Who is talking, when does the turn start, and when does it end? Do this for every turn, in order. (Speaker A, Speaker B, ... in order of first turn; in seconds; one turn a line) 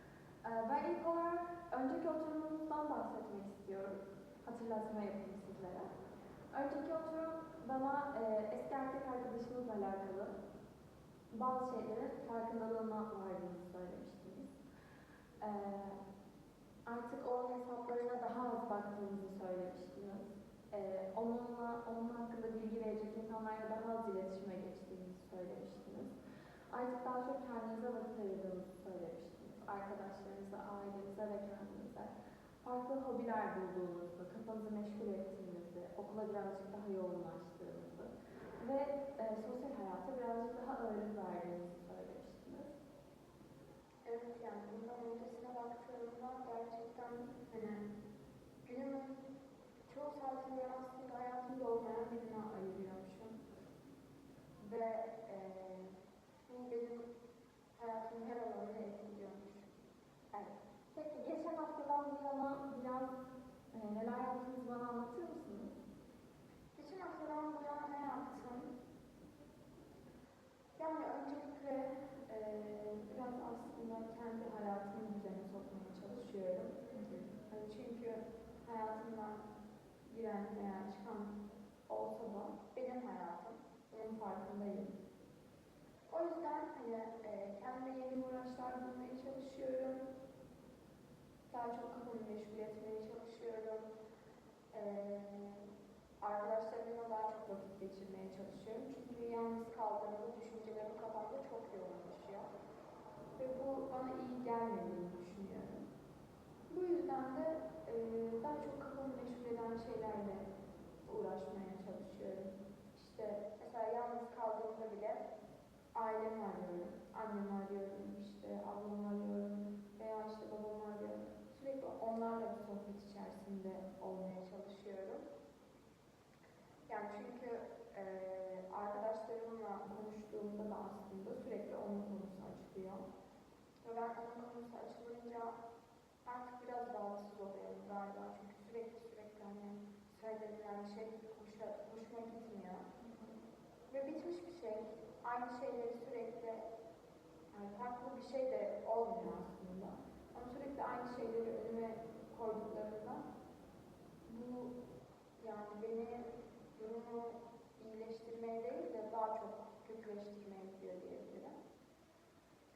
Speaker A: 0.4-5.9
Speaker A: 6.5-10.3
Speaker A: 11.3-14.5
Speaker A: 15.4-16.0
Speaker A: 16.9-26.1
Speaker A: 26.7-32.1
Speaker A: 32.6-42.7
Speaker B: 44.0-47.8
Speaker B: 48.6-49.2
Speaker B: 49.9-53.4
Speaker B: 54.6-57.1
Speaker B: 57.8-59.7
Speaker A: 60.3-63.1
Speaker A: 63.7-65.7
Speaker B: 66.7-68.7
Speaker B: 70.8-79.4
Speaker A: 77.0-77.3
Speaker B: 80.1-81.3
Speaker B: 81.9-84.9
Speaker B: 86.1-90.1
Speaker B: 91.5-93.8
Speaker B: 94.7-95.7
Speaker B: 96.2-102.5
Speaker B: 103.4-105.8
Speaker B: 106.7-110.5
Speaker B: 111.0-115.2
Speaker B: 115.9-125.2
Speaker B: 126.9-133.0
Speaker B: 133.8-135.5
Speaker B: 136.2-142.8
Speaker A: 143.0-143.3
Speaker B: 143.9-146.6
Speaker B: 147.5-153.2
Speaker B: 154.3-154.7
Speaker B: 155.4-156.2
Speaker B: 156.8-161.5